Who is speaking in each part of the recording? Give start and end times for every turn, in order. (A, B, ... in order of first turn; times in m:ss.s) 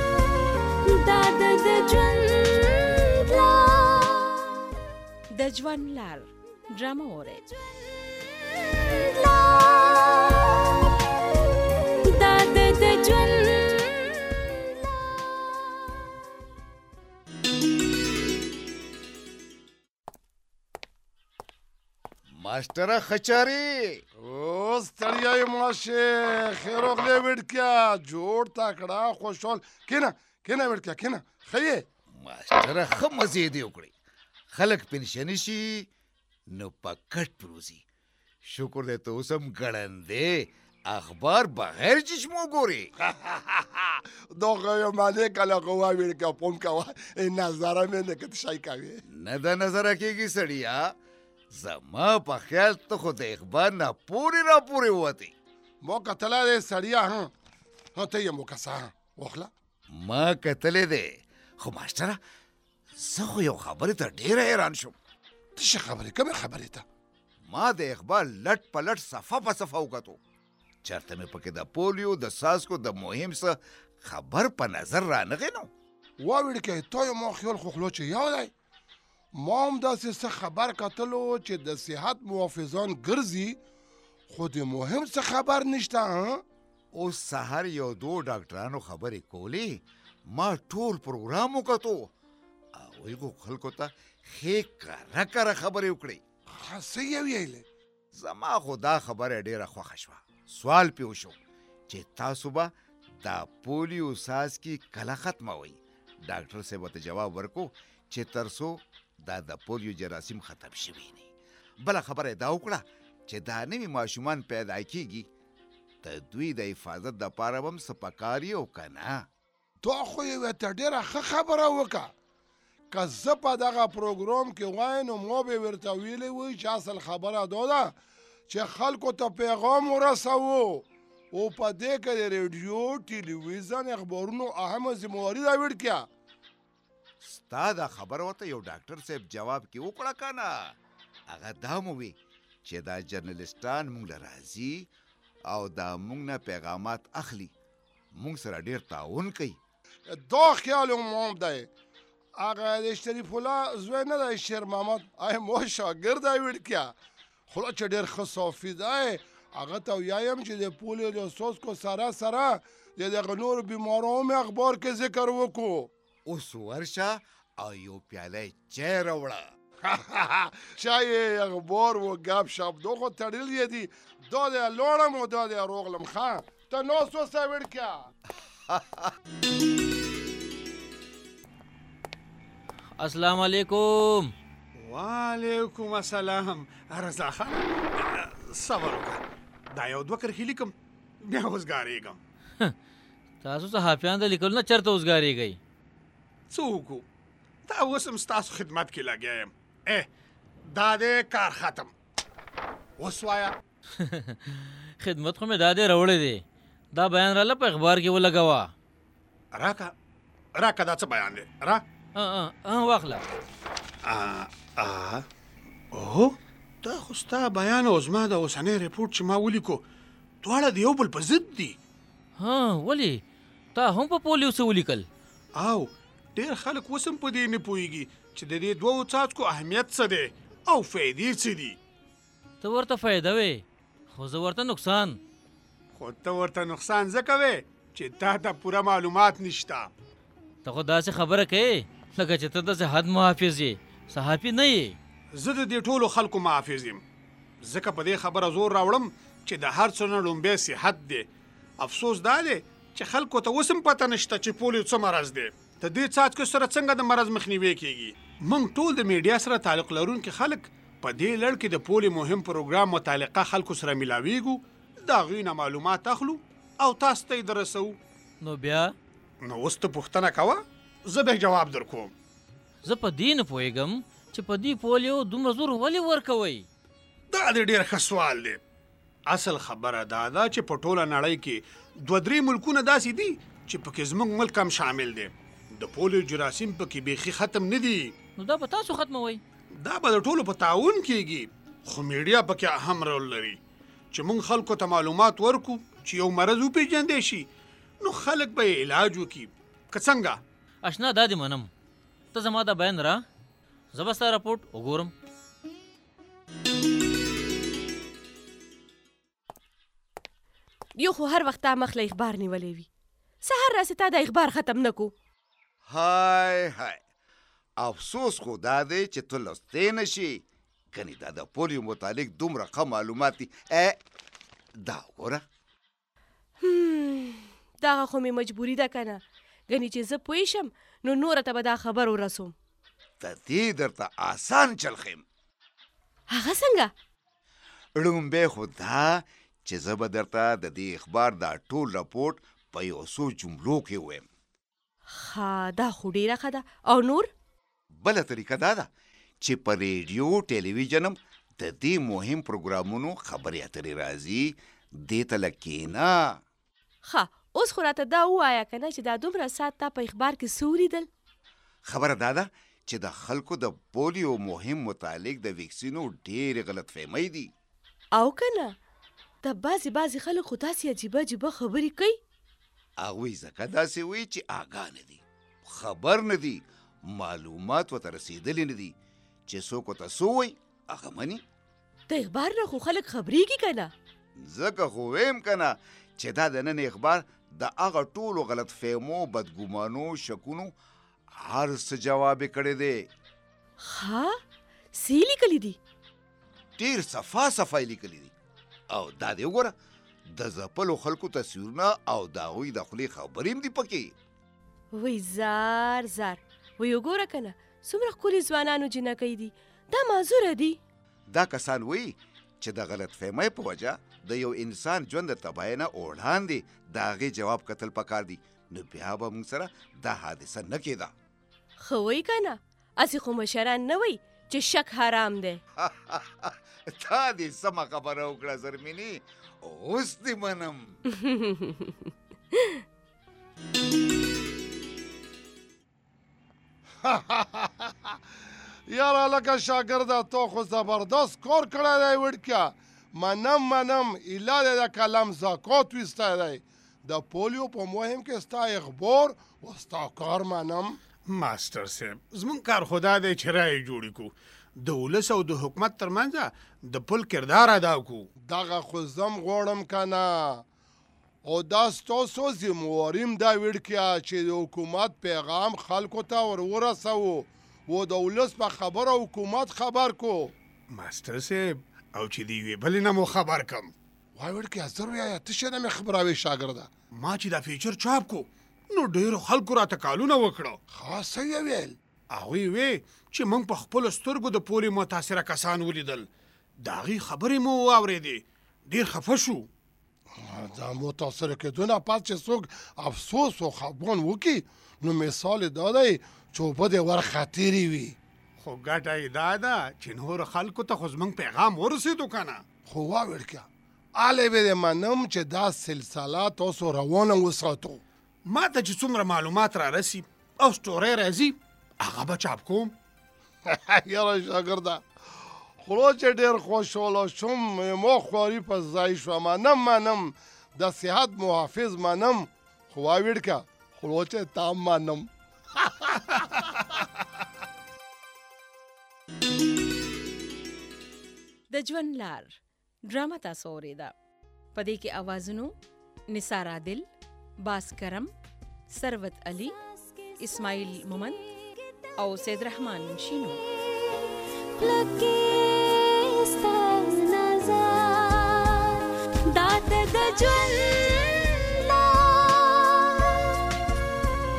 0:00.8-0:04.7 A
0:05.3-0:06.3 B
0:06.8-0:07.4 B
0:08.1-0:10.8 A
0:12.0-0:14.9 A
0:22.4-0:24.0 C
0:24.2-0:31.8 D
0:32.2-0:33.9 C
0:34.5-0:35.9 C
0:36.5-0:37.8 C
0:38.4-0:42.9 C
0:43.1-0:49.0 D
0:49.1-0:50.9 C
0:51.5-0:55.3 C
0:55.8-0:57.3 D
0:58.0-0:59.5 D
1:00.0-1:01.1 C
1:01.6-1:02.2 C
1:03.0-1:05.0 C
1:05.6-1:06.8 D
1:07.5-1:10.2 C
1:10.8-1:15.7 C
1:16.2-1:18.5 D
1:19.4-1:23.6 D
1:24.3-1:26.4 D
1:26.9-1:32.1 C
1:32.8-1:36.2 C
1:36.5-1:37.6 D
1:38.1-1:41.4 C
1:41.9-1:42.7 C
1:43.2-1:51.3 C
1:51.8-1:55.3 C
1:56.0-1:59.2 C
1:59.8-2:02.1 D
2:02.9-2:08.0 D
2:08.5-2:16.0 D
2:17.2-2:20.7 C
2:21.3-2:24.9 C
2:25.5-2:27.5 C
2:28.2-2:29.6 C
2:30.1-2:31.7 D
2:32.4-2:36.9 D
2:37.5-2:45.9 D
2:46.3-2:49.5 C
2:49.9-2:58.0 D
2:58.7-2:59.0 C
3:03.0-3:04.3 E
3:04.8-3:12.2 F
3:13.4-3:15.6 E
3:16.5-3:17.0 F
3:17.7-3:20.1 F
3:20.7-3:21.9 F
3:23.0-3:23.6 F
3:24.0-3:28.7 E
3:29.5-3:29.9 F
3:30.6-3:31.8 F
3:32.2-3:33.2 E
3:34.0-3:35.2 F
3:35.9-3:39.8 F
3:40.4-3:41.8 F
3:42.4-3:43.2 E
3:43.8-3:45.1 E
3:45.5-3:51.8 F
3:52.6-3:55.2 E
3:55.9-3:59.9 F
4:00.6-4:05.0 E
4:05.3-4:07.0 F
4:07.6-4:11.3 F
4:11.8-4:28.0 F
4:28.4-4:28.9 E
4:29.4-4:32.1 F
4:32.8-4:36.7 E
4:37.3-4:38.6 F
4:39.3-4:48.2 F
4:48.4-4:49.4 E
4:49.8-4:53.6 F
4:54.1-4:57.5 F
4:58.0-5:00.4 F
5:00.8-5:01.7 E
5:02.3-5:03.2 E
5:03.9-5:05.1 E
5:11.0-5:12.9 B
5:13.4-5:15.1 B
5:15.9-5:17.0 C
5:17.8-5:20.4 C
5:20.9-5:24.0 C
5:24.8-5:25.4 C
5:26.6-5:32.5 B
5:33.2-5:35.2 C
5:36.3-5:36.9 B
5:38.0-5:44.2 C
5:45.1-5:47.3 B
5:48.0-5:48.9 C
5:49.4-5:56.3 C
5:57.0-6:01.1 B
6:01.9-6:07.5 C
6:08.2-6:08.7 B
6:09.4-6:12.2 B
6:13.0-6:18.9 C
6:19.5-6:21.4 C
6:22.1-6:23.9 B
6:24.4-6:30.7 C
6:31.4-6:33.0 C
6:33.8-6:34.4 B
6:34.9-6:35.8 B
6:36.8-6:38.3 C
6:38.9-6:39.7 C
6:40.3-6:44.1 C
6:45.0-6:50.8 B
6:51.3-7:01.1 C
7:01.8-7:05.6 B
7:05.8-7:11.0 C
7:11.2-7:12.0 B
7:17.0-7:18.1 D
7:18.9-7:31.0 D
7:31.3-7:38.3 F
7:38.5-7:40.6 D
7:41.4-7:50.5 D
7:50.9-7:53.9 F
7:54.4-7:56.9 D
7:57.2-8:00.8 F
8:00.9-8:02.0 D
8:02.3-8:06.3 F
8:06.8-8:09.7 F
8:10.4-8:18.2 D
8:18.6-8:22.6 F
8:22.9-8:28.0 D
8:28.5-8:32.9 F
8:33.7-8:35.0 D
8:35.8-8:45.3 D
8:46.1-8:46.6 D
8:51.7-8:54.1 G
8:54.8-8:55.8 G
8:56.3-8:57.1 G
8:57.6-8:58.3 G
8:58.9-8:59.8 G
9:00.4-9:01.4 G
9:02.2-9:03.6 G
9:04.7-9:14.0 A